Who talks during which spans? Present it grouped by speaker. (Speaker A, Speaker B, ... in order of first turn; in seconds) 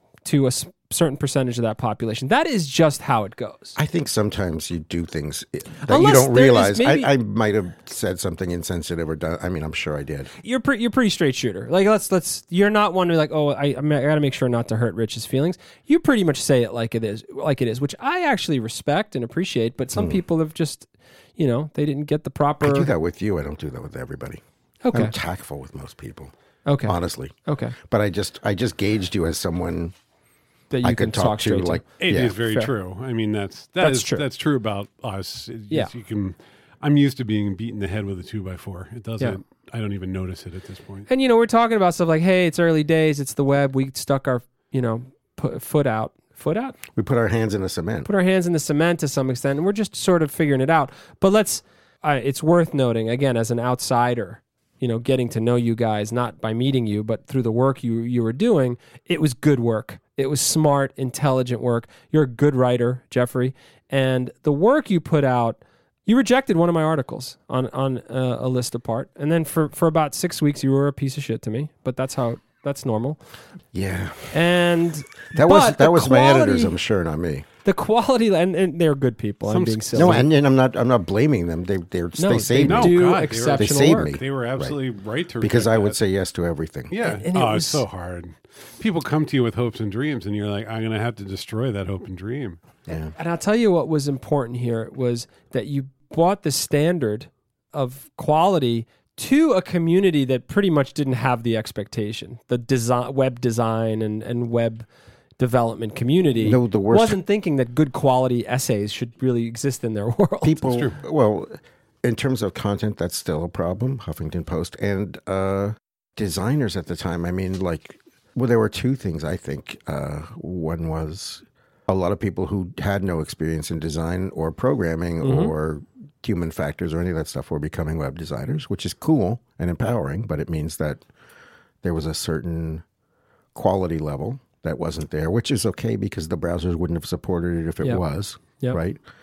Speaker A: 0.2-3.8, 5.8-7.1, 10.4-22.9, 24.8-25.1, 26.6-27.8, 30.7-32.7, 33.8-34.2, 41.1-46.8, 48.0-73.2, 74.3-76.7, 77.6-80.3, 82.2-84.2, 87.0-87.8, 93.2-104.9, 105.4-110.7, 125.2-125.5
Speaker B: 3.8-10.3, 19.9-20.2, 22.6-24.4, 24.9-26.3, 26.8-29.9, 30.8-32.3, 46.9-48.1, 73.7-74.3, 75.3-77.5, 79.9-84.8, 85.4-86.9, 92.9-93.1, 106.4-107.2, 110.4-131.0, 131.8-132.8, 133.5-139.0
Speaker C: 32.0-41.1, 79.5-80.2, 82.6-86.0, 86.9-92.6, 110.7-111.0